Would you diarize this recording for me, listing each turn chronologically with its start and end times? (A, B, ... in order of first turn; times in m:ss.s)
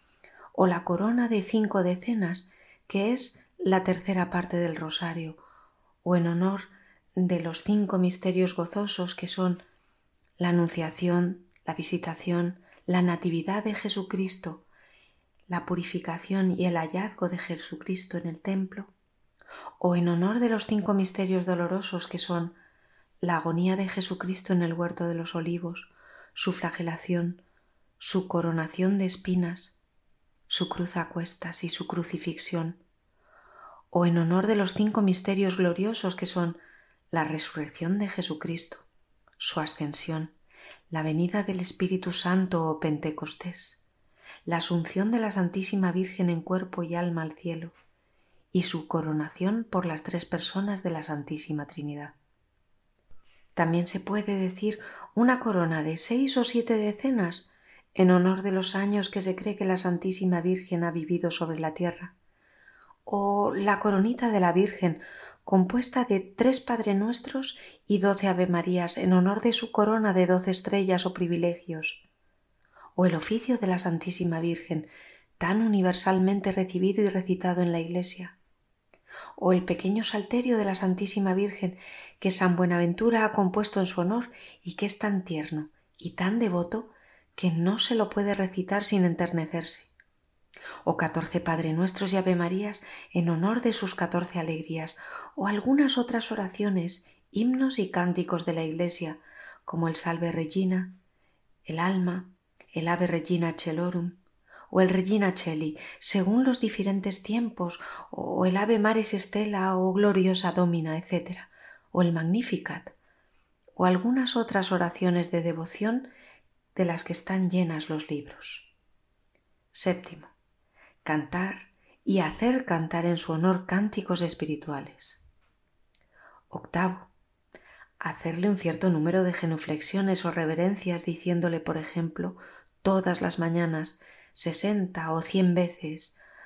0:00.5-0:05.4 A
0:06.0-0:09.6 A
0:10.4-0:14.6 A
0:15.5-0:18.9 A
0:19.8-0:22.6 A
0:23.2-0:27.4 A
0:28.0-0:29.8 A
0:30.5-0:32.8 A
0:33.9-0:36.6 A
0:37.1-0:38.9 A
0:39.4-0:40.3 A
0:40.9-0:43.8 A
0:44.5-0:47.7 A
0:48.5-0:52.1 A
0:53.6-1:02.1 A
1:03.1-1:12.0 A
1:13.0-1:14.9 A
1:15.4-1:18.4 A
1:19.4-1:29.9 A
1:30.8-1:41.0 A
1:41.7-1:44.2 A
1:44.7-1:52.9 A
1:53.8-1:56.1 A
1:56.8-1:58.7 A
1:59.7-2:00.3 A
2:01.0-2:05.2 A
2:06.5-2:07.1 A
2:08.0-2:16.2 A